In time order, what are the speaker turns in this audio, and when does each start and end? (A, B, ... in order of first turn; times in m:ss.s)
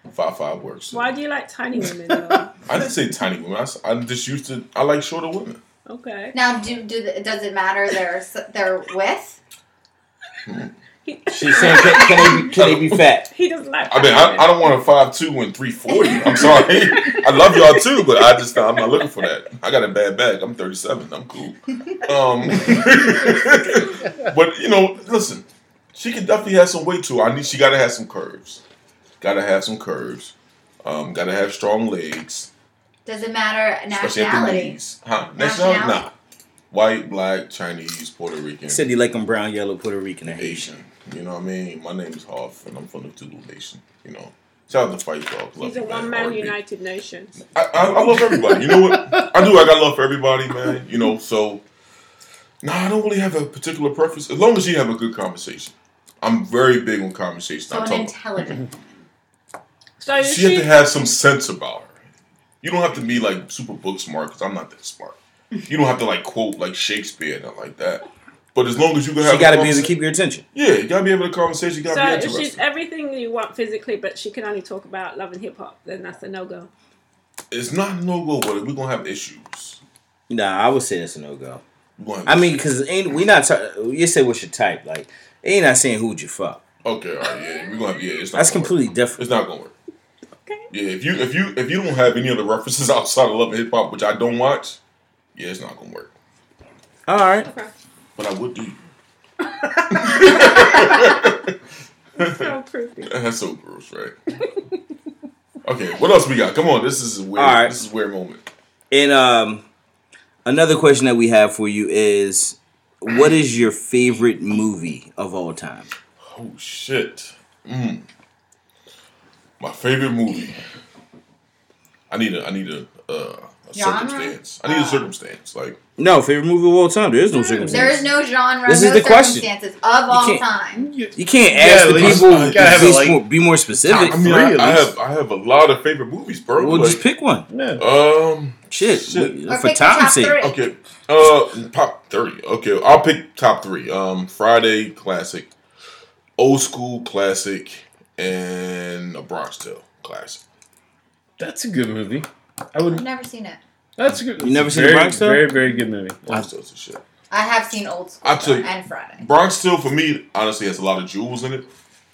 0:00.1-0:01.1 A
0:00.9-0:02.5 B
0:02.7-0:05.6 A
0:05.9-0:06.3 B
0:06.3-0:09.4 C
0:10.5-0:10.7 A
0:11.0-0:12.5 B
0:11.3-0:13.3 D
0:11.5-0:13.1 A
0:13.3-0:14.5 B
0:13.9-0:28.6 A
0:16.1-0:18.2 B
0:29.2-0:32.5 A
0:33.1-0:34.8 C
0:33.9-0:36.1 A
0:35.4-0:36.1 C
0:36.7-0:38.8 A
0:38.7-0:40.8 D
0:40.3-0:46.6 A
0:45.6-0:47.4 B
0:47.5-0:51.6 A
0:48.3-0:49.5 E
0:52.6-0:58.1 A
0:57.7-0:58.7 C
1:00.0-1:00.7 B
1:00.2-1:01.9 A
1:02.6-1:09.9 A
1:09.2-1:10.4 D
1:10.5-1:12.6 A
1:11.9-1:16.7 B
1:17.5-1:19.8 A
1:20.3-1:21.6 D
1:22.0-1:22.6 A
1:22.3-1:26.6 D
1:26.8-1:29.7 A
1:28.4-1:29.2 D
1:30.7-1:34.8 A
1:35.4-1:36.1 A
1:37.1-1:37.5 D
1:37.4-1:37.7 B
1:38.2-1:38.8 A
1:39.9-1:41.5 A
1:40.2-1:40.8 B
1:42.2-1:44.2 A
1:42.2-1:43.1 B
1:45.6-1:48.4 A
1:47.4-1:47.8 D
1:48.9-1:49.6 D
1:50.4-1:55.9 D
1:56.2-1:58.1 A
1:59.6-2:00.6 A
2:02.1-2:05.8 A
2:03.7-2:05.1 C
2:06.0-2:08.1 D
2:07.4-2:07.9 E
2:07.7-2:10.9 C
2:08.7-2:09.5 D
2:10.1-2:10.4 D
2:10.8-2:13.2 E
2:11.2-2:14.2 D
2:11.9-2:13.2 A
2:13.8-2:14.9 E
2:14.0-2:17.0 A
2:16.6-2:17.5 D
2:17.5-2:17.8 E
2:17.8-2:19.4 A
2:18.7-2:20.4 D
2:19.5-2:20.6 C
2:20.4-2:25.5 A
2:26.4-2:30.4 A
2:31.4-2:33.0 E
2:32.8-2:33.6 C
2:34.0-2:36.5 E
2:34.4-2:35.5 D
2:36.3-2:37.0 A
2:37.3-2:39.3 C
2:38.2-2:41.7 A